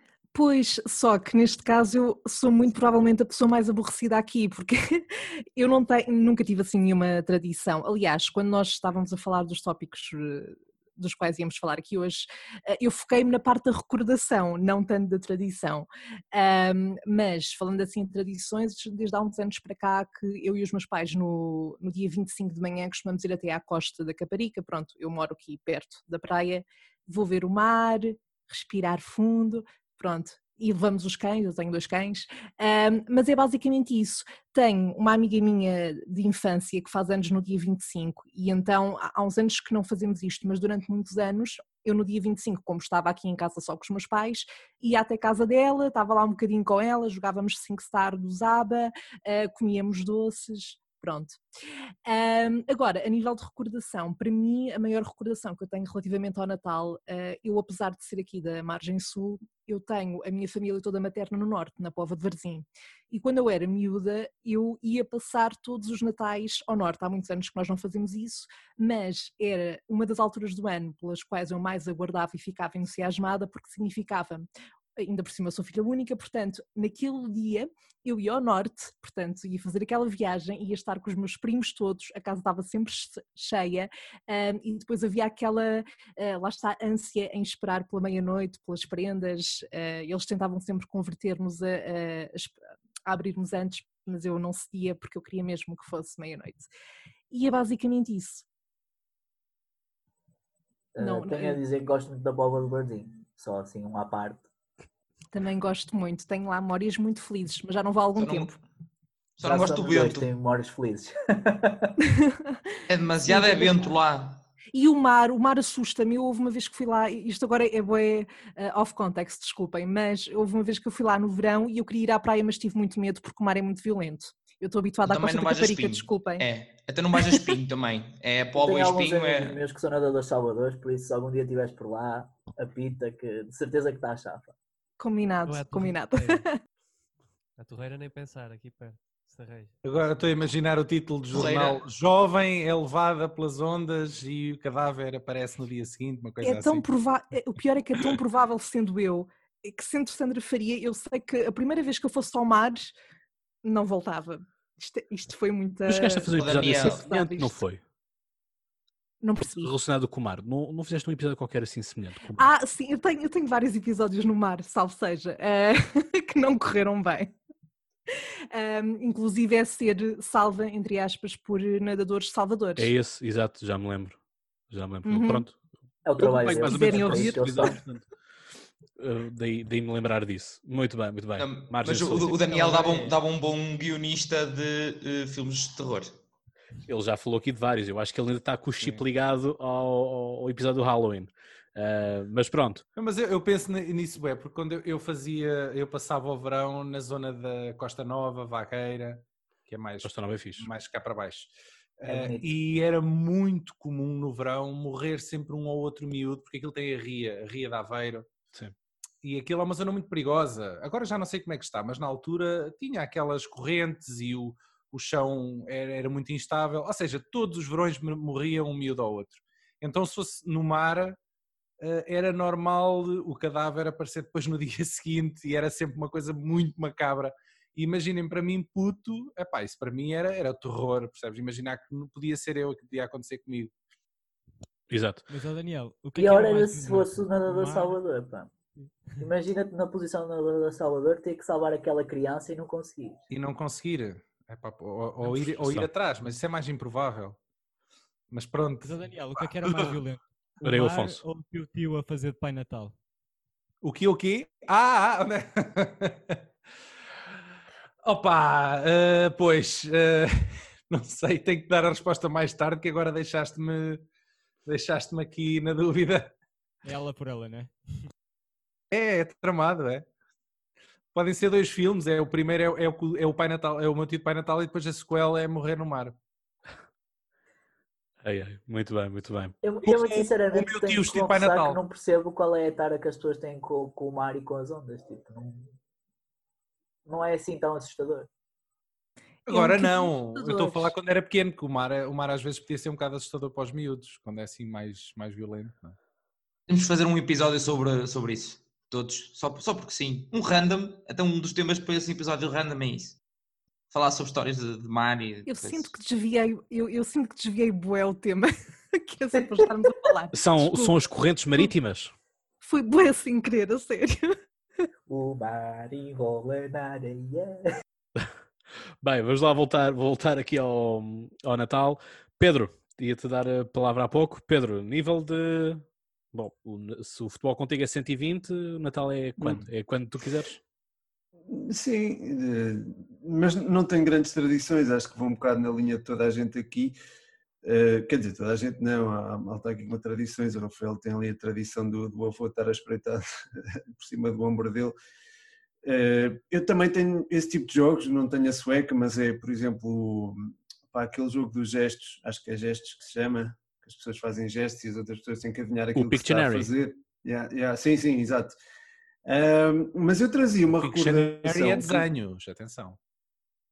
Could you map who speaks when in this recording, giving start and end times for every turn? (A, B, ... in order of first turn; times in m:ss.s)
0:00.3-0:05.0 A
0:05.6-0:51.4 A
0:52.0-1:36.7 A
1:37.3-1:38.4 A
1:40.9-1:44.5 B
1:41.0-1:41.6 A
1:45.3-1:48.6 A
1:48.2-1:48.6 C
1:49.4-1:50.3 C
1:49.4-1:51.9 B
1:52.9-1:54.4 C
1:53.3-1:53.9 A
1:54.7-2:06.4 A
2:05.0-2:09.6 C
2:07.1-2:07.6 A
2:08.6-2:14.5 B
2:15.0-2:16.6 A
2:15.4-2:16.4 D
2:17.6-2:19.8 D
2:19.8-2:26.9 E
2:21.3-2:21.8 C
2:26.4-2:32.9 A
2:33.6-2:37.6 A
2:35.8-2:37.8 F
2:36.3-2:37.0 C
2:39.2-2:39.7 A
2:39.5-2:42.5 F
2:42.3-2:47.3 A
2:48.5-2:52.9 A
2:52.8-2:54.2 F
2:54.7-2:55.6 F
2:55.0-2:55.4 A
2:56.0-2:57.8 B
2:56.2-2:58.0 F
2:56.5-2:57.7 A
2:59.0-3:02.4 F
3:01.4-3:06.1 C
3:02.6-3:03.0 G
3:06.8-3:12.8 F
3:13.0-3:28.3 E
3:20.0-3:20.6 F
3:22.1-3:22.5 B
3:29.2-3:41.2 E
3:41.8-3:53.7 E
3:54.9-3:55.2 F
3:55.3-3:58.0 G
3:56.1-3:58.5 B
3:59.2-4:03.2 B
4:03.3-4:07.4 E
4:05.2-4:05.9 F
4:08.3-4:09.9 E
4:08.8-4:12.9 G
4:10.6-4:11.2 F
4:13.8-4:16.4 E
4:18.0-4:24.0 E
4:24.6-4:26.3 E
4:26.8-4:27.8 G
4:28.9-4:30.0 E
4:31.1-4:36.2 E
4:38.2-4:39.5 F
4:39.6-4:45.7 B
4:39.8-4:41.8 E
4:47.0-4:48.3 B
4:49.4-4:56.0 E
4:49.5-4:50.8 A
4:56.7-5:03.2 C
5:03.9-5:05.9 C
5:05.4-5:11.0 A
5:10.3-5:12.1 F
5:12.6-5:14.3 A
5:15.1-5:17.6 B
5:19.0-5:30.6 F
5:31.5-5:36.9 H
5:37.6-5:44.9 H
5:45.8-5:58.5 H
5:55.9-5:56.7 F
5:59.2-6:02.1 H
6:00.7-6:03.0 E